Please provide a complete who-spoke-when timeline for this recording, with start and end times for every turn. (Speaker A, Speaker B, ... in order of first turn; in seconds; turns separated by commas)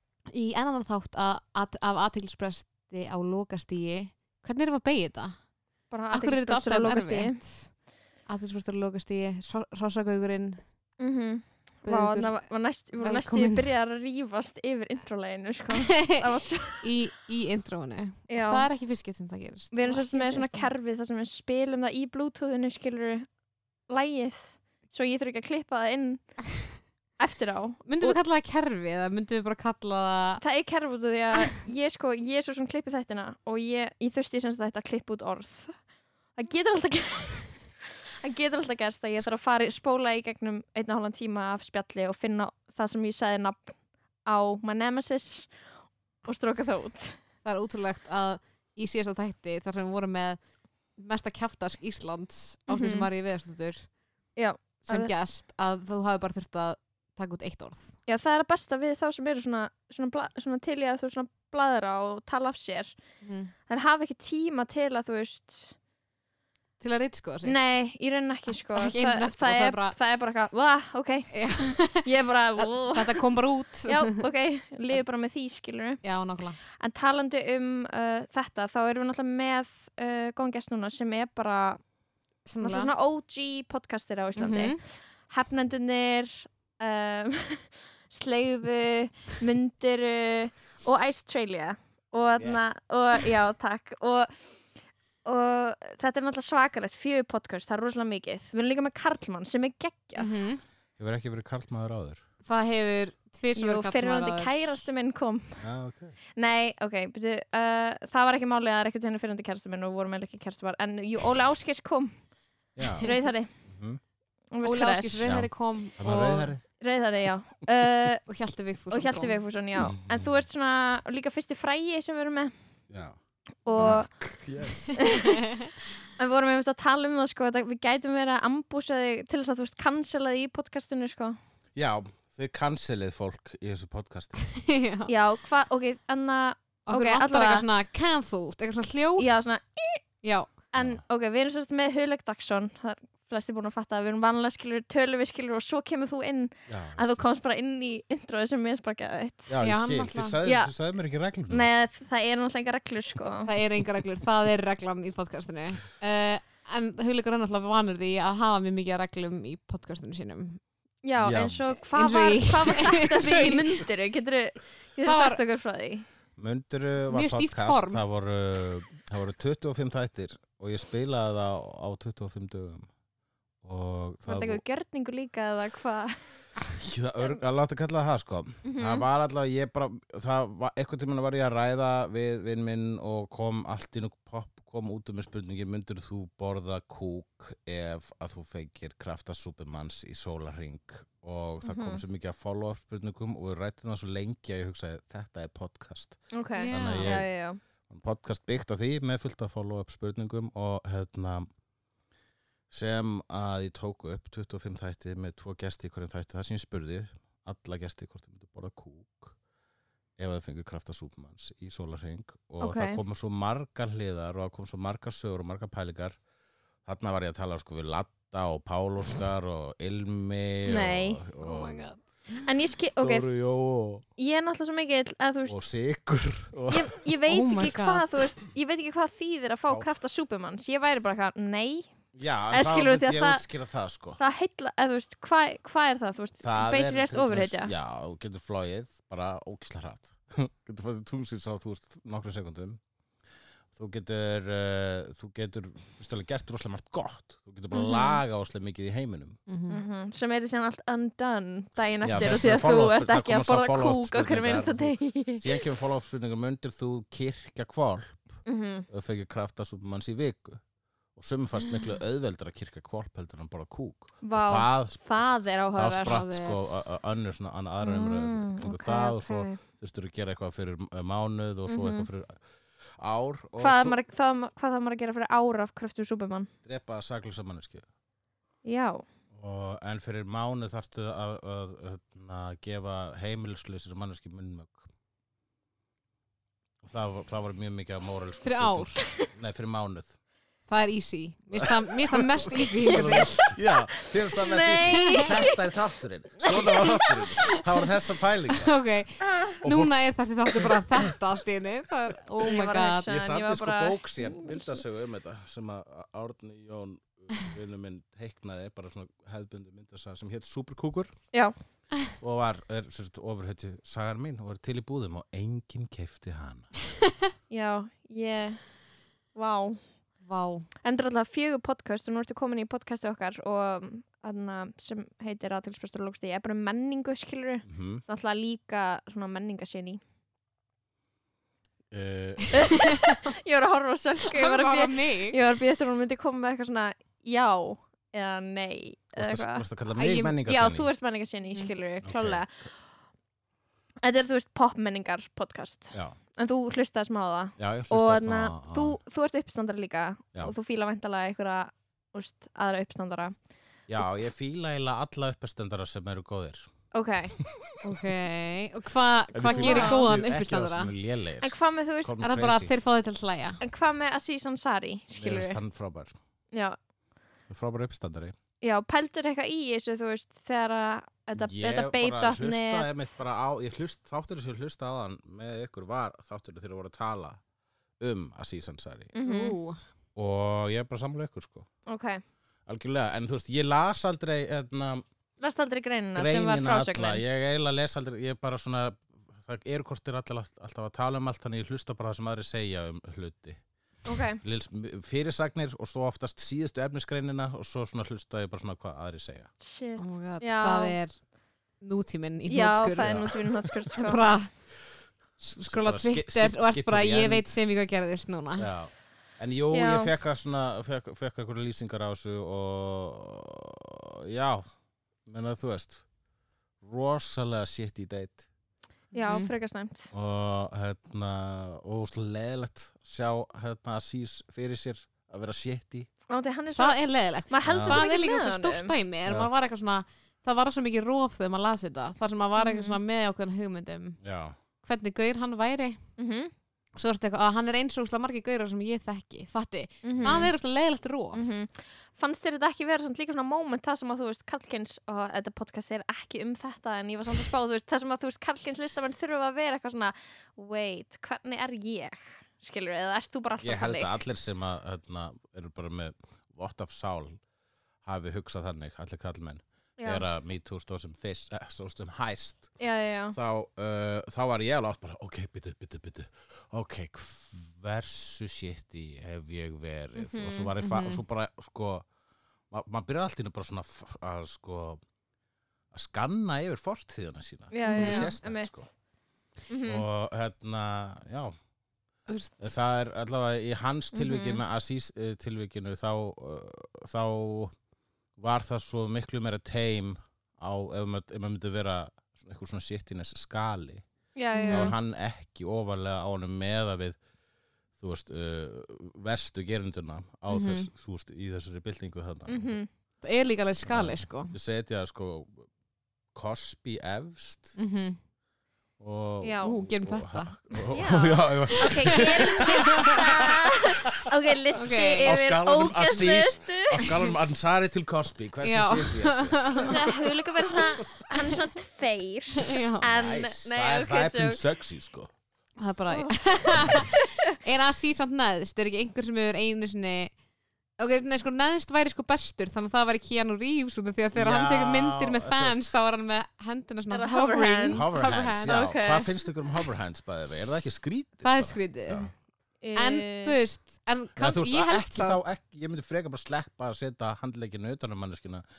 Speaker A: 0.3-5.3, Speaker B: 5.9-7.4, Speaker A: 6.1-7.7, Speaker A: 8.3-10.6, Speaker B: 11.0-16.9, Speaker A: 11.8-12.4, Speaker A: 13.0-13.7, Speaker A: 15.7-16.2, Speaker A: 16.8-20.7, Speaker B: 18.3-18.7, Speaker B: 19.7-23.3, Speaker B: 23.9-26.4, Speaker B: 27.2-28.2, Speaker A: 27.8-30.4, Speaker B: 30.4-35.7, Speaker B: 36.3-45.6, Speaker B: 46.2-47.2, Speaker A: 47.4-50.4, Speaker A: 51.0-53.9, Speaker B: 52.7-53.1, Speaker B: 54.4-55.1, Speaker A: 54.9-57.9, Speaker B: 58.1-63.0, Speaker A: 63.2-63.5, Speaker B: 63.7-65.8, Speaker A: 66.8-67.5, Speaker B: 67.4-73.2, Speaker A: 68.8-69.9, Speaker A: 71.3-72.0, Speaker A: 72.6-74.2, Speaker B: 73.8-76.0, Speaker A: 76.0-76.6, Speaker B: 76.8-81.8, Speaker A: 82.5-82.9, Speaker B: 82.6-94.5, Speaker A: 84.3-84.8, Speaker B: 95.2-100.4, Speaker A: 100.2-100.6, Speaker C: 101.0-102.2, Speaker A: 102.4-104.5, Speaker B: 103.5-105.6, Speaker C: 105.6-106.2, Speaker B: 106.3-112.1, Speaker C: 112.8-113.0, Speaker B: 113.0-113.5, Speaker A: 113.0-113.3, Speaker C: 113.7-114.0, Speaker B: 114.5-115.3, Speaker A: 114.6-116.5, Speaker C: 115.2-116.6, Speaker B: 116.8-118.2, Speaker A: 118.3-119.3, Speaker B: 118.9-122.5, Speaker C: 119.8-120.4, Speaker C: 122.9-123.2, Speaker B: 123.6-124.1, Speaker C: 123.7-125.0, Speaker A: 124.8-125.7, Speaker B: 125.0-125.4, Speaker B: 126.2-131.4, Speaker C: 131.8-134.4, Speaker A: 134.5-135.1, Speaker B: 135.1-137.7, Speaker A: 136.9-139.3, Speaker B: 139.2-140.0, Speaker A: 140.2-140.5, Speaker B: 140.7-149.5, Speaker C: 146.7-147.2, Speaker C: 149.5-151.7, Speaker A: 149.6-150.4, Speaker B: 150.4-150.7, Speaker B: 151.5-153.5, Speaker A: 153.4-160.6, Speaker B: 161.0-166.1, Speaker C: 161.2-161.6, Speaker A: 161.9-163.8, Speaker A: 165.0-165.4, Speaker C: 166.4-172.9, Speaker A: 167.1-168.0, Speaker C: 173.6-174.6, Speaker B: 174.2-176.3, Speaker C: 176.8-197.3, Speaker B: 178.6-179.1, Speaker B: 191.6-192.0, Speaker B: 196.3-197.6, Speaker A: 196.6-197.2, Speaker C: 197.9-201.5, Speaker C: 202.7-209.3, Speaker C: 210.2-216.2, Speaker B: 212.6-213.0, Speaker C: 216.8-221.8, Speaker B: 220.7-221.2, Speaker A: 221.4-222.5, Speaker B: 222.4-223.3, Speaker C: 223.0-224.0, Speaker B: 224.2-225.6, Speaker C: 225.4-226.9, Speaker B: 226.7-231.9, Speaker A: 227.3-228.0, Speaker C: 232.1-234.2, Speaker B: 232.5-233.4, Speaker B: 234.2-237.7, Speaker C: 236.4-242.8, Speaker C: 243.7-249.4, Speaker B: 247.7-248.2, Speaker A: 249.5-249.8, Speaker B: 249.7-255.6, Speaker C: 252.0-260.6, Speaker B: 258.4-258.9, Speaker C: 261.1-274.0, Speaker B: 264.2-266.5, Speaker A: 266.0-266.5, Speaker B: 267.8-269.6, Speaker B: 271.7-272.1, Speaker B: 273.6-276.5, Speaker C: 276.6-277.8, Speaker B: 278.6-279.0, Speaker C: 279.3-284.9, Speaker C: 286.8-290.1, Speaker A: 288.4-289.0, Speaker A: 290.7-293.5, Speaker C: 291.5-298.7, Speaker B: 293.9-295.8, Speaker B: 296.4-297.3, Speaker A: 298.5-303.1, Speaker C: 299.6-299.9, Speaker B: 302.4-304.8, Speaker C: 303.1-311.1, Speaker C: 312.2-316.7, Speaker B: 317.5-318.6, Speaker B: 319.3-319.8, Speaker A: 320.2-320.7, Speaker B: 320.8-330.0, Speaker C: 327.6-328.0, Speaker C: 331.9-332.9, Speaker B: 332.5-339.6, Speaker A: 332.7-333.1, Speaker A: 334.3-335.4, Speaker C: 339.1-340.9, Speaker A: 339.9-340.3, Speaker B: 340.4-342.7, Speaker C: 342.0-342.4, Speaker B: 344.0-353.3, Speaker C: 345.9-346.2, Speaker C: 347.6-349.0, Speaker C: 353.9-356.7, Speaker B: 356.9-357.4, Speaker A: 357.8-360.9, Speaker C: 359.3-362.7, Speaker B: 359.5-360.1, Speaker B: 361.4-362.2, Speaker A: 362.2-363.6, Speaker B: 363.6-365.6, Speaker C: 365.1-366.1, Speaker B: 366.5-366.8, Speaker C: 367.5-368.3, Speaker B: 368.6-373.1, Speaker C: 371.4-377.4, Speaker C: 378.0-379.1, Speaker B: 379.1-379.6, Speaker A: 379.2-379.8, Speaker C: 380.1-381.7, Speaker B: 381.9-382.2, Speaker C: 382.7-385.0, Speaker B: 385.4-387.2, Speaker C: 386.1-393.6, Speaker B: 394.0-394.4, Speaker C: 394.4-399.5, Speaker B: 399.6-401.0, Speaker A: 400.0-401.2, Speaker A: 401.8-403.4, Speaker B: 402.5-404.2, Speaker C: 403.0-403.3, Speaker A: 403.9-404.5, Speaker A: 405.4-408.7, Speaker C: 405.6-407.5, Speaker C: 408.6-414.6, Speaker B: 409.7-410.1, Speaker C: 415.2-416.0, Speaker C: 416.8-418.5, Speaker A: 419.1-419.5, Speaker B: 419.1-420.1, Speaker C: 420.1-426.1, Speaker B: 426.3-428.9, Speaker A: 426.7-434.2, Speaker C: 427.6-428.0, Speaker B: 432.6-433.0, Speaker C: 434.2-434.6, Speaker A: 434.8-436.0, Speaker B: 436.2-436.5, Speaker A: 436.9-441.4, Speaker B: 440.0-440.5, Speaker B: 441.3-454.1, Speaker C: 453.6-457.4, Speaker C: 458.0-462.7, Speaker B: 460.0-460.2, Speaker B: 462.8-463.4, Speaker C: 463.3-472.1, Speaker B: 470.2-470.7, Speaker A: 470.8-471.2, Speaker C: 472.7-475.0, Speaker C: 475.9-478.8, Speaker B: 477.7-478.9, Speaker A: 477.9-478.3, Speaker B: 479.7-480.1, Speaker C: 479.9-481.5, Speaker A: 482.3-482.7, Speaker C: 482.6-487.7, Speaker B: 484.1-484.6, Speaker C: 488.4-494.1, Speaker B: 494.4-494.9, Speaker A: 494.5-494.9, Speaker C: 494.7-497.2, Speaker C: 498.0-502.8, Speaker A: 500.5-500.9, Speaker B: 502.5-502.9, Speaker A: 503.2-504.6, Speaker C: 503.9-505.7, Speaker C: 506.3-507.8, Speaker A: 507.8-508.2, Speaker C: 509.0-513.2, Speaker B: 509.4-509.7, Speaker A: 509.6-510.9, Speaker B: 510.9-517.1, Speaker A: 512.0-513.3, Speaker A: 514.7-515.3, Speaker C: 515.2-520.1, Speaker A: 518.6-520.0, Speaker B: 519.8-524.6, Speaker A: 522.6-523.0, Speaker C: 523.0-525.3, Speaker A: 525.8-530.3, Speaker A: 531.0-539.0, Speaker C: 534.3-536.0, Speaker B: 537.1-539.3, Speaker C: 537.9-542.3, Speaker A: 541.4-542.3, Speaker B: 542.8-543.6, Speaker A: 543.0-545.4, Speaker C: 544.4-548.6